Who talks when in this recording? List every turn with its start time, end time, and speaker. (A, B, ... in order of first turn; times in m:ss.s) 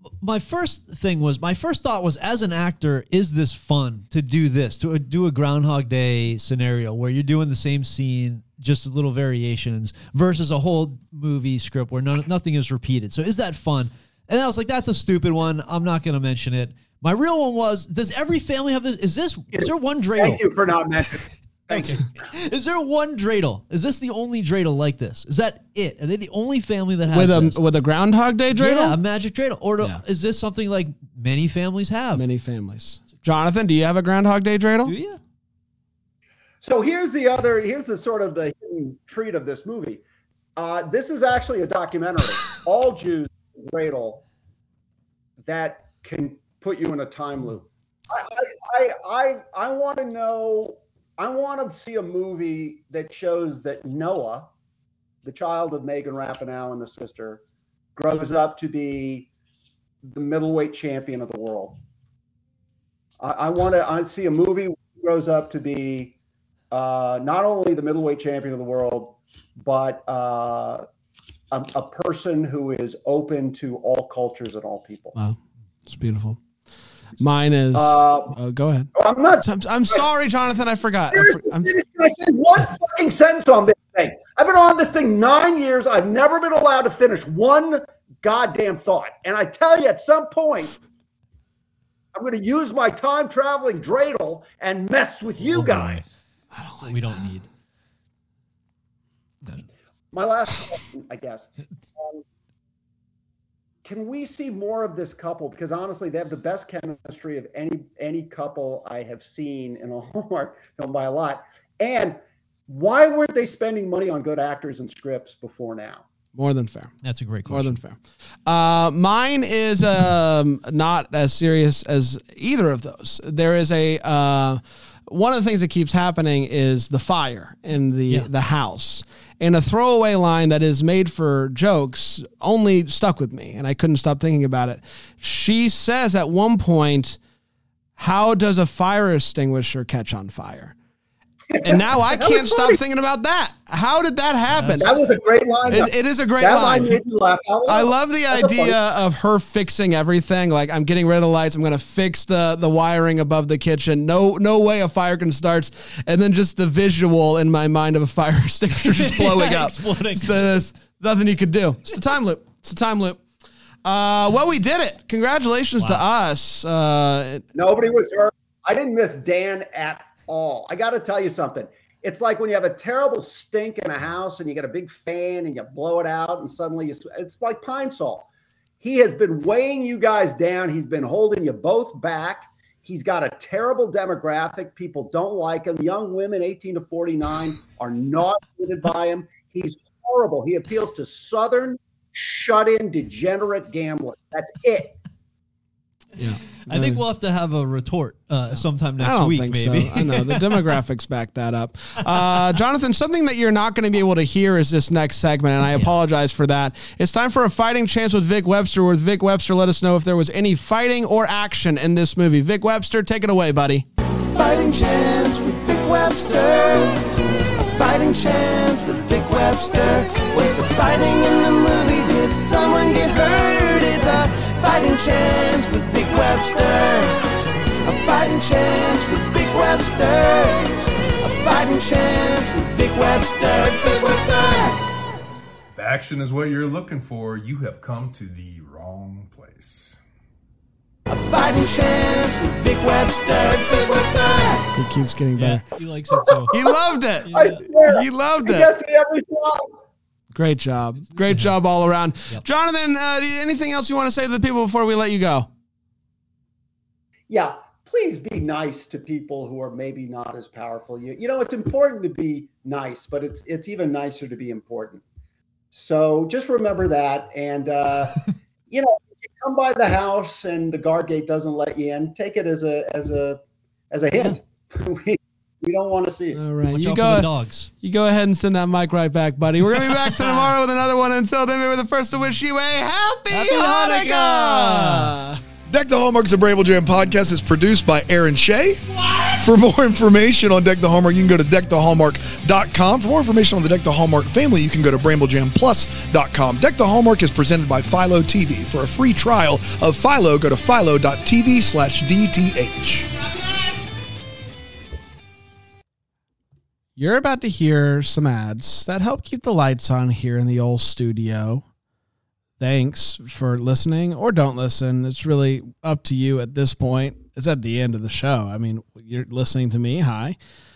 0:00.2-0:20.4 A
0:19.6-0:22.0 B
0:21.7-0:27.6 A
0:27.1-0:29.0 C
0:28.5-0:32.3 A
0:32.1-0:34.9 C
0:34.8-0:35.2 A
0:36.6-0:40.0 B
0:40.6-0:44.2 B
0:45.4-0:54.5 B
0:55.2-0:57.4 B
0:58.0-0:59.3 B
1:00.0-1:01.8 B
1:03.2-1:06.2 B
1:06.7-1:10.8 B
1:11.5-1:15.2 B
1:15.2-1:16.4 C
1:17.2-1:18.9 C
1:17.7-1:18.4 B
1:19.0-1:20.0 B
1:19.4-1:21.7 C
1:21.1-1:30.8 B
1:32.1-1:36.1 B
1:35.5-1:36.0 A
1:36.6-1:37.5 A
1:40.1-1:42.2 B
1:43.8-1:56.1 B
1:56.3-1:57.0 C
1:57.0-1:57.8 A
1:57.5-2:17.2 C
2:18.0-2:20.8 C
2:21.5-2:22.8 B
2:21.6-2:24.9 C
2:24.5-2:24.9 A
2:24.8-2:28.8 B
2:25.7-2:27.0 C
2:27.7-2:43.2 C
2:38.8-2:40.5 A
2:43.8-2:47.4 C
2:47.6-2:58.3 B
2:58.8-3:15.0 B
3:16.2-3:17.0 C
3:16.6-3:20.7 A
3:19.0-3:33.9 C
3:34.4-3:36.9 D
3:36.2-3:36.7 C
3:37.8-3:47.1 D
3:47.9-3:50.7 D
3:51.2-3:54.8 D
3:55.8-4:00.0 E
4:01.1-4:04.6 D
4:04.7-4:05.6 C
4:05.4-4:06.6 A
4:06.1-4:06.8 B
4:06.5-4:08.7 C
4:07.2-4:07.6 A
4:07.3-4:09.8 B
4:10.3-4:15.5 C
4:11.2-4:11.5 A
4:17.3-4:25.0 B
4:25.7-4:36.4 B
4:36.4-4:37.3 C
4:36.6-4:37.7 A
4:37.8-4:45.4 C
4:39.7-4:40.5 A
4:43.3-4:45.2 A
4:45.7-4:48.8 F
4:49.0-4:49.4 C
4:49.4-5:03.1 F
5:07.0-5:11.6 C
5:12.6-5:20.4 C